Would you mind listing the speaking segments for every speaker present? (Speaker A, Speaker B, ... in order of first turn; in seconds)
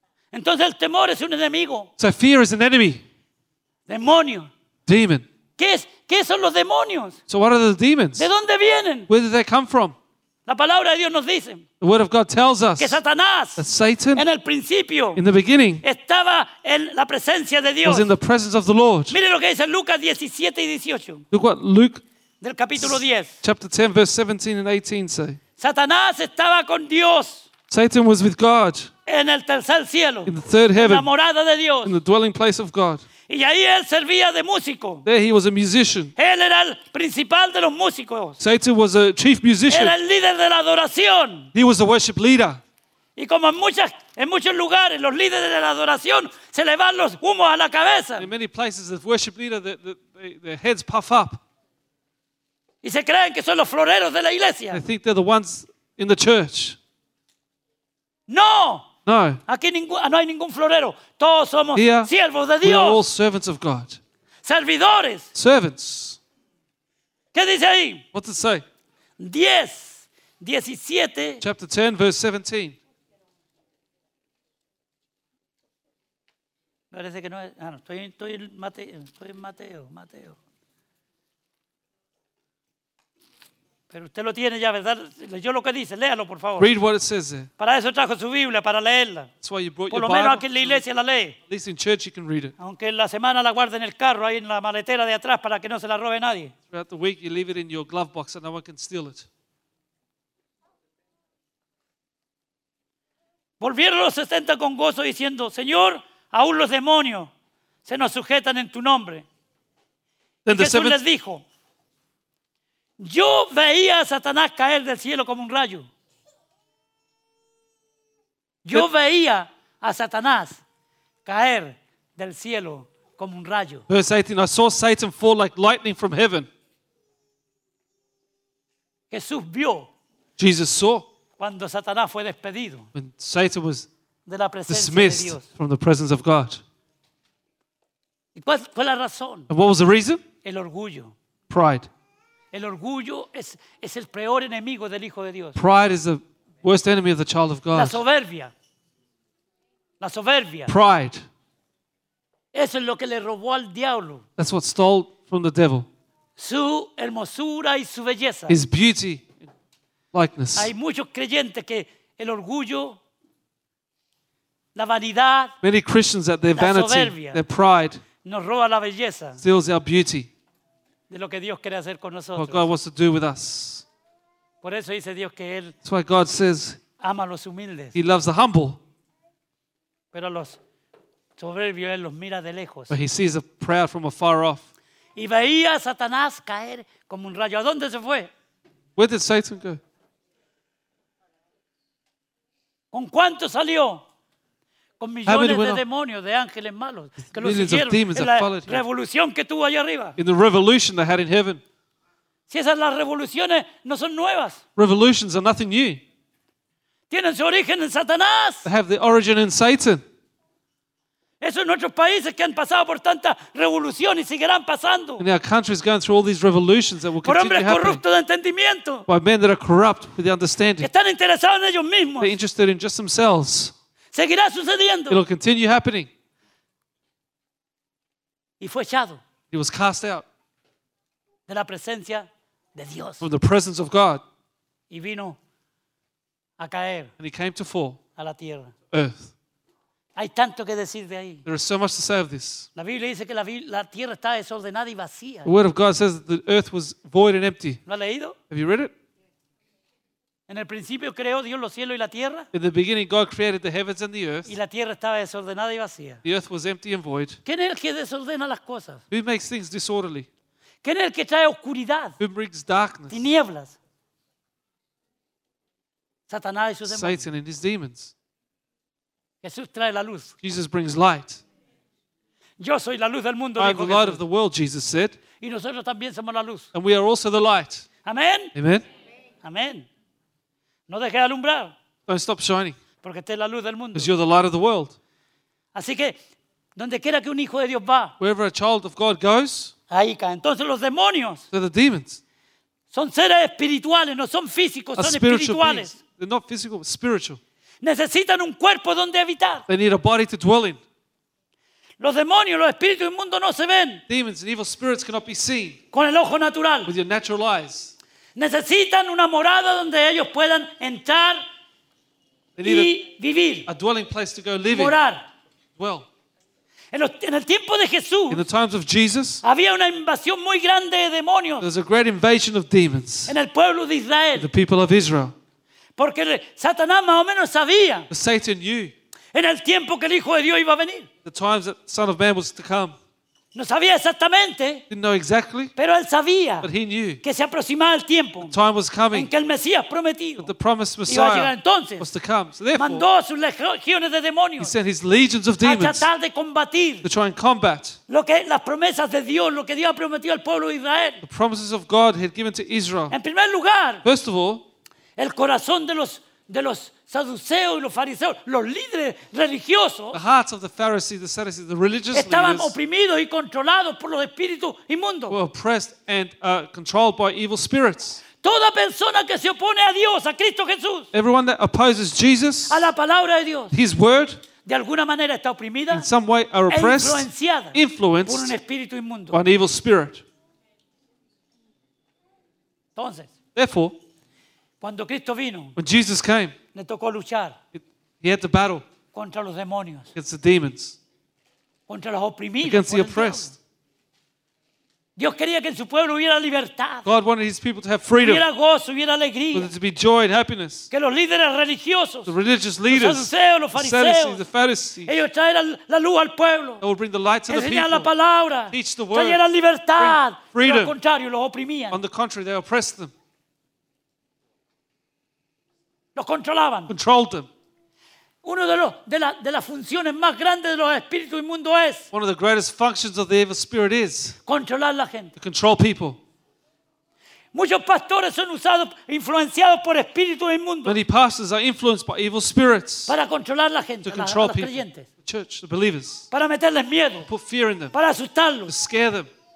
Speaker A: 0.3-1.9, 3.9-4.5, 5.6-7.2, 8.2-9.1, 10.5-11.6, 12.8-13.6, 14.1-15.2, 15.8-18.1, 19.1-21.2, 22.4-23.4, 25.6-27.5, 29.1-31.9, 33.3-35.0, 36.2-38.4, 39.7-41.5, 43.1-48.3, 52.8-54.8, 58.3-58.9, 59.5-63.0, 64.4-65.3, 67.3-68.0, 69.2-71.4, 76.9-80.4, 83.9-86.7, 87.6-89.3, 89.9-91.4, 92.6-96.5, 103.6-107.3, 107.8-109.2, 110.5-111.4, 113.0-115.9, 118.6-120.6, 121.2-123.8, 129.1-129.9, 131.4-132.9, 134.3-135.4, 138.3-139.5, 140.4-141.1, 142.5-145.6, 147.7-148.5, 150.0-150.7, 152.5-154.2, 156.4-158.6, 160.5-163.0, 164.7-165.5, 166.5-167.4, 168.2-169.4, 171.1-172.7, 174.6-175.7, 177.0-177.9, 180.1-180.6, 181.4-182.9, 185.2-188.3, 192.9-194.0, 195.0-200.2, 202.5-204.6, 207.1-208.7, 211.4-215.2, 217.2-219.1, 220.8-222.3, 224.1-225.2, 228.6-229.2, 231.5-233.2, 234.9-235.4, 236.6-237.1, 238.2-238.7, 240.2-241.4, 242.8-245.5, 247.8-248.4, 250.5-252.5, 254.4-256.2, 257.4-259.0, 260.8-262.2, 263.1-263.8, 266.3-267.2, 269.4-270.3, 272.6-274.2, 275.4-276.7, 278.0-278.5, 279.4-279.9, 280.9-281.7, 283.0-284.1, 285.7-286.2, 286.8-288.1, 289.9-291.4, 292.9-295.9, 297.8-299.6, 302.0-304.0, 305.9-306.9, 308.3-311.4, 312.6-313.7, 314.7-315.2, 316.9-318.4, 319.4-321.6, 323.3-324.5, 326.0-328.1, 329.3-331.1, 333.5-334.8, 335.8-336.7, 337.2-338.5, 339.1-340.5, 341.1-342.1, 342.7-344.7, 345.6-347.1, 348.1-351.2, 353.1-354.0, 355.2-360.2, 362.1-365.4, 368.4-371.1, 372.7-373.7, 374.6-376.1, 376.7-379.4, 382.9-383.3, 384.8-385.7, 386.7-387.6, 389.1-390.1, 391.9-393.5, 395.2-397.1, 398.2-399.7, 400.9-402.3, 402.9-404.4, 405.1-406.8, 407.5-412.0, 416.1-416.9, 418.4-422.1, 424.4-425.3, 427.5-431.0, 433.1-435.1, 436.3-437.3, 437.9-438.7
Speaker B: 2.0-3.0, 4.8-5.2, 7.3-8.3, 9.1-9.9, 11.8-13.0, 13.6-14.2, 15.2-15.8, 17.8-19.2, 21.3-22.0, 22.8-25.4, 27.7-28.9, 30.2-31.1, 31.8-33.0, 35.0-36.1, 38.4-39.9, 41.5-42.6, 48.2-51.4, 54.7-56.8, 59.0-59.4, 61.7-62.1, 62.6-64.0, 65.3-66.2, 68.1-68.6, 71.4-72.8, 86.6-87.5, 89.4-90.8, 91.5-92.5, 96.7-99.3, 110.4-111.0, 123.9-126.5, 130.4-131.1, 132.9-133.9, 134.7-136.6, 139.5-140.2, 141.5-141.9, 145.6-148.0, 150.7-151.2, 154.4-155.9, 158.5-159.4, 160.1-160.7, 165.6-168.0, 169.4-170.3, 172.3-173.8, 175.8-176.8, 177.9-178.8, 182.9-184.6, 188.9-189.8, 195.2-195.8, 197.3-198.8, 200.2-201.6, 204.8-206.0, 208.6-210.0, 215.2-218.0, 219.1-220.9, 222.2-223.7, 225.1-226.1, 229.5-230.2, 233.2-234.2, 237.2-238.0, 238.9-239.3, 241.4-242.7, 245.4-247.8, 248.5-248.9, 252.5-254.5, 256.2-257.4, 259.1-260.3, 262.2-263.3, 266.9-268.1, 270.4-271.4, 273.6-275.2, 276.7-277.9, 278.5-278.9, 282.1-282.8, 283.9-284.9, 288.2-289.7, 291.5-292.2, 295.0-297.4, 299.7-300.8, 304.1-305.8, 306.9-307.9, 312.6-313.0, 313.7-315.0, 315.8-316.1, 318.3-319.4, 321.6-323.3, 324.4-325.3, 328.1-328.9, 331.2-332.9, 334.9-335.7, 336.6-337.2, 338.4-339.3, 340.4-343.1, 344.6-346.1, 347.0-348.0, 351.2-353.1, 354.0-354.6, 360.1-362.7, 365.3-368.2, 371.1-372.9, 373.7-374.4, 375.9-378.5, 379.3-380.2, 383.5-383.9, 385.8-386.5, 387.7-388.8, 390.1-391.0, 392.6-393.6, 397.0-398.4, 399.5-400.9, 402.3-405.2, 406.8-408.1, 408.7-409.4, 410.0-410.9, 411.9-413.1, 416.9-417.5, 422.1-424.4, 425.4-426.2, 430.8-433.1, 434.0-436.3, 437.3-437.9, 438.7-439.3